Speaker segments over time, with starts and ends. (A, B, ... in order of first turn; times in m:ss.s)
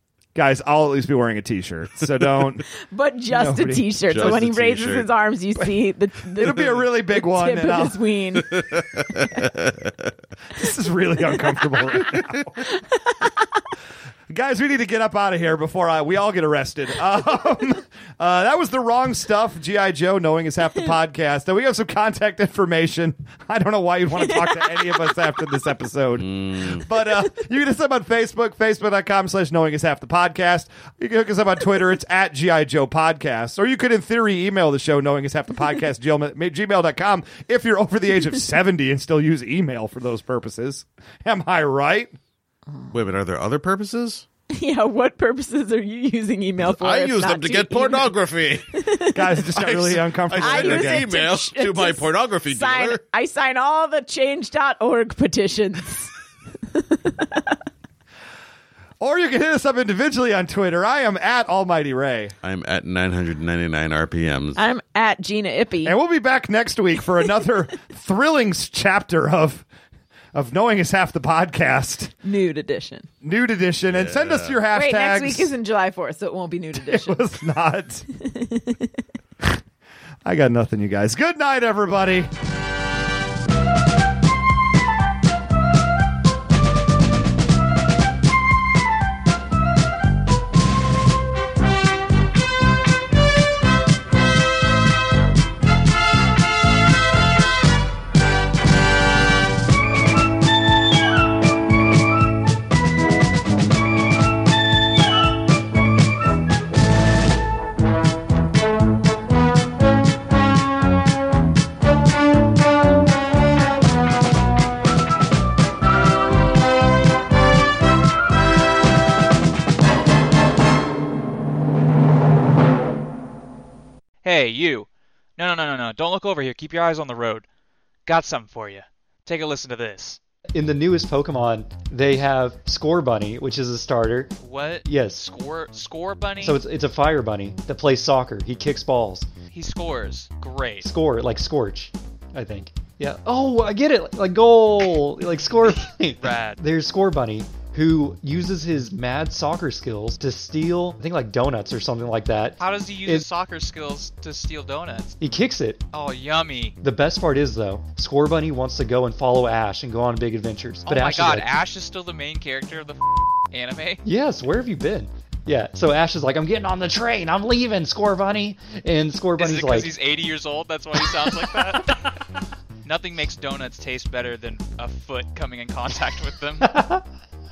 0:00.4-0:02.6 A
0:02.9-0:08.6 B
0:03.3-0:03.8 A
0:04.1-0:05.1 C
0:06.4-0:08.0 A
0:08.6-0:09.9 C
0:10.6-0:12.6 A
0:14.3-0:42.1 A
0:24.2-0:24.9 B
0:26.2-0:26.8 C
0:42.9-0:44.2 C
0:44.5-0:48.1 B
0:46.6-0:48.7 C
0:48.8-0:49.4 B
0:49.1-0:51.1 A
0:49.6-0:53.0 C
0:50.4-0:56.1 B
0:56.8-0:57.5 B
0:59.0-1:02.4 A
1:02.4-1:04.6 C
1:04.6-1:06.0 B
1:05.8-1:09.6 A
1:10.3-1:12.1 A
1:12.2-1:13.1 B
1:13.2-1:15.5 A
1:13.9-1:14.6 C
1:14.7-1:17.2 B
1:16.8-1:18.0 A
1:18.2-1:18.9 B
1:20.2-1:22.3 A
2:04.2-2:07.4 D
2:08.1-2:10.2 D
2:10.6-2:15.3 E
2:14.4-2:16.6 D
2:16.4-2:19.3 E
2:19.5-2:20.9 D
2:20.8-2:33.3 E
2:25.7-2:26.6 D
2:32.6-2:35.2 D
2:35.2-2:35.8 E
2:35.9-2:36.8 D
2:36.8-2:41.6 E
2:40.9-2:44.0 D
2:44.0-2:50.0 E
2:49.4-2:52.1 D
2:52.8-2:56.7 D
2:56.6-2:57.0 E